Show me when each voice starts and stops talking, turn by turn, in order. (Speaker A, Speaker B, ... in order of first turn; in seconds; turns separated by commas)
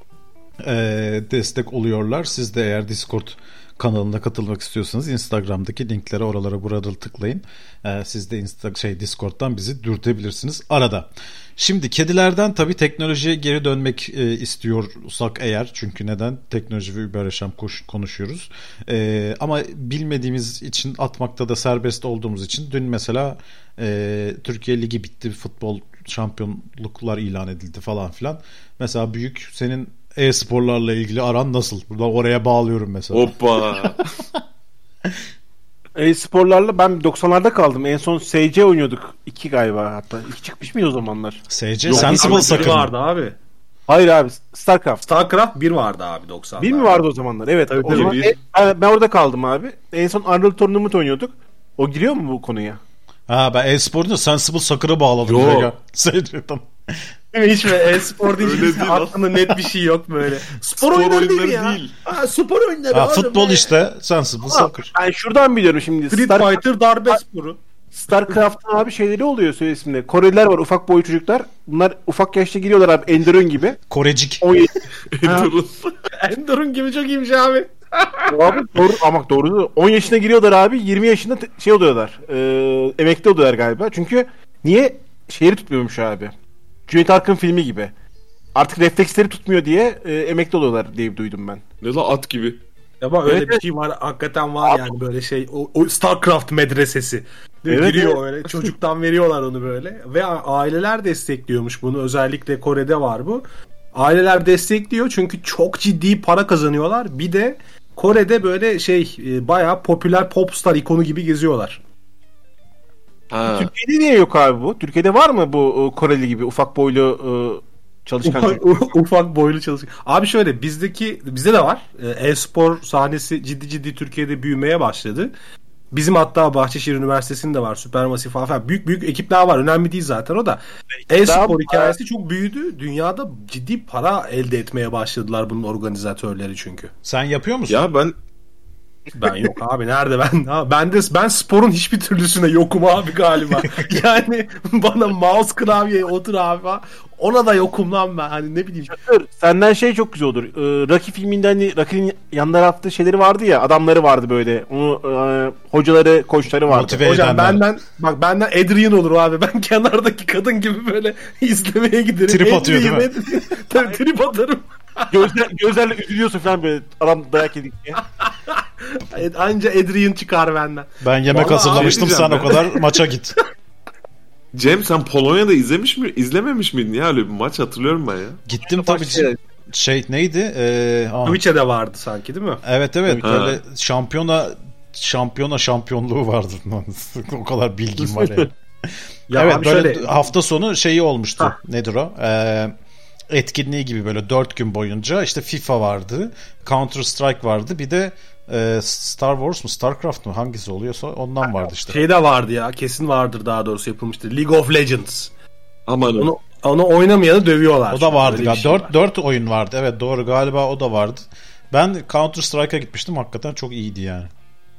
Speaker A: 0.6-33.9, Speaker B: 33.1-34.1, Speaker C: 35.9-41.4, Speaker A: 41.5-42.9, Speaker B: 41.9-42.8, Speaker D: 41.9-43.4, Speaker C: 43.9-45.0, Speaker D: 45.0-47.0, Speaker C: 46.6-52.8, Speaker D: 47.7-48.2, Speaker B: 47.9-48.3, Speaker A: 53.3-56.7, Speaker B: 55.2-55.7, Speaker D: 57.3-63.8, Speaker B: 58.3-59.6, Speaker B: 60.8-61.9, Speaker A: 62.9-64.9, Speaker C: 64.5-67.2, Speaker D: 66.1-67.6, Speaker C: 67.9-73.8, Speaker A: 73.9-74.4, Speaker C: 74.4-75.5, Speaker B: 75.2-75.9, Speaker D: 76.2-78.3, Speaker C: 78.3-86.3, Speaker C: 86.9-87.9, Speaker C: 88.5-91.6, Speaker B: 91.8-92.6, Speaker D: 93.0-111.8, Speaker C: 93.2-93.6, Speaker C: 97.7-98.2, Speaker B: 113.3-113.7, Speaker C: 113.5-118.8, Speaker D: 118.2-125.3, Speaker D: 125.9-136.9, Speaker C: 131.1-131.9, Speaker A: 137.0-137.8, Speaker B: 137.7-138.1, Speaker D: 139.2-149.0, Speaker C: 148.9-157.1, Speaker A: 156.7-157.6, Speaker D: 157.0-165.3, Speaker A: 162.3-163.1, Speaker C: 165.1-168.0, Speaker D: 168.5-172.8, Speaker A: 171.0-173.3, Speaker B: 171.3-172.6, Speaker B: 174.5-178.4, Speaker A: 178.5-181.4, Speaker C: 178.7-179.3, Speaker D: 181.2-182.6, Speaker A: 182.6-188.5, Speaker C: 183.1-183.4, Speaker B: 183.2-183.6, Speaker D: 189.3-190.3, Speaker A: 189.3-192.7, Speaker A: 193.3-202.0, Speaker D: 201.8-205.3, Speaker B: 205.9-206.3, Speaker D: 206.2-208.9, Speaker A: 207.9-214.3